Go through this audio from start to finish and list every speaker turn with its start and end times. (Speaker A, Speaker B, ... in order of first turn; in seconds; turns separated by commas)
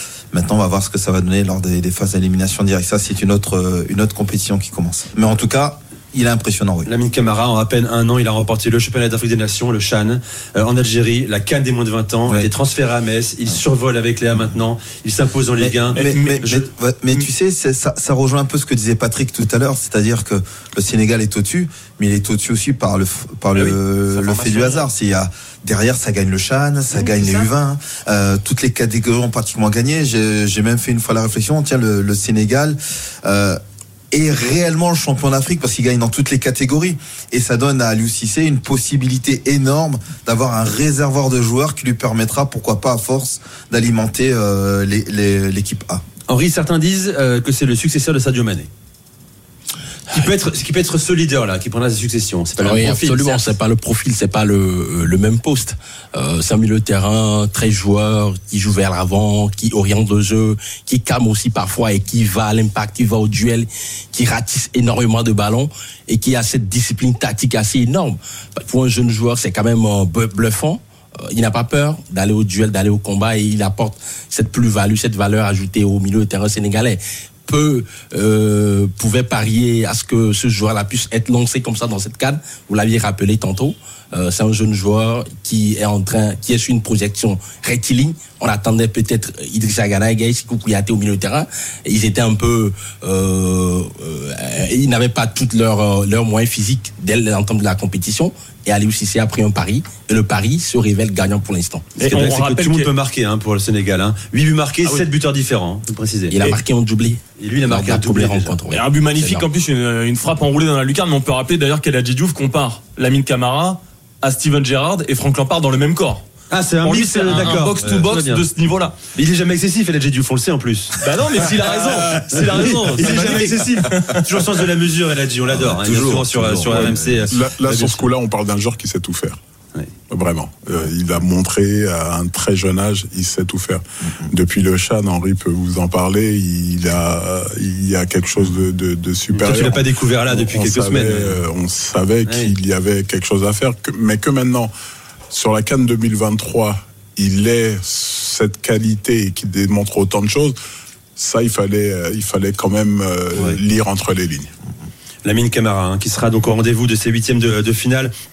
Speaker A: 0.3-6.9, Speaker B: 6.8-16.7, Speaker A: 15.6-33.6, Speaker C: 15.9-16.4, Speaker B: 23.5-24.9, Speaker B: 26.9-27.4, Speaker A: 34.1-46.0, Speaker B: 46.3-48.7, Speaker B: 50.1-53.5, Speaker D: 52.6-101.8, Speaker B: 102.0-106.5, Speaker C: 102.0-102.9, Speaker D: 106.3-109.4, Speaker B: 107.4-108.6, Speaker C: 108.7-116.2, Speaker B: 116.5-118.5, Speaker C: 116.8-119.0, Speaker B: 119.1-128.0, Speaker C: 121.0-124.2, Speaker A: 125.5-127.3, Speaker E: 126.7-129.4, Speaker E: 130.1-144.7, Speaker B: 139.3-141.4, Speaker B: 142.2-142.5, Speaker E: 145.3-150.6, Speaker E: 151.2-154.5, Speaker B: 155.2-158.1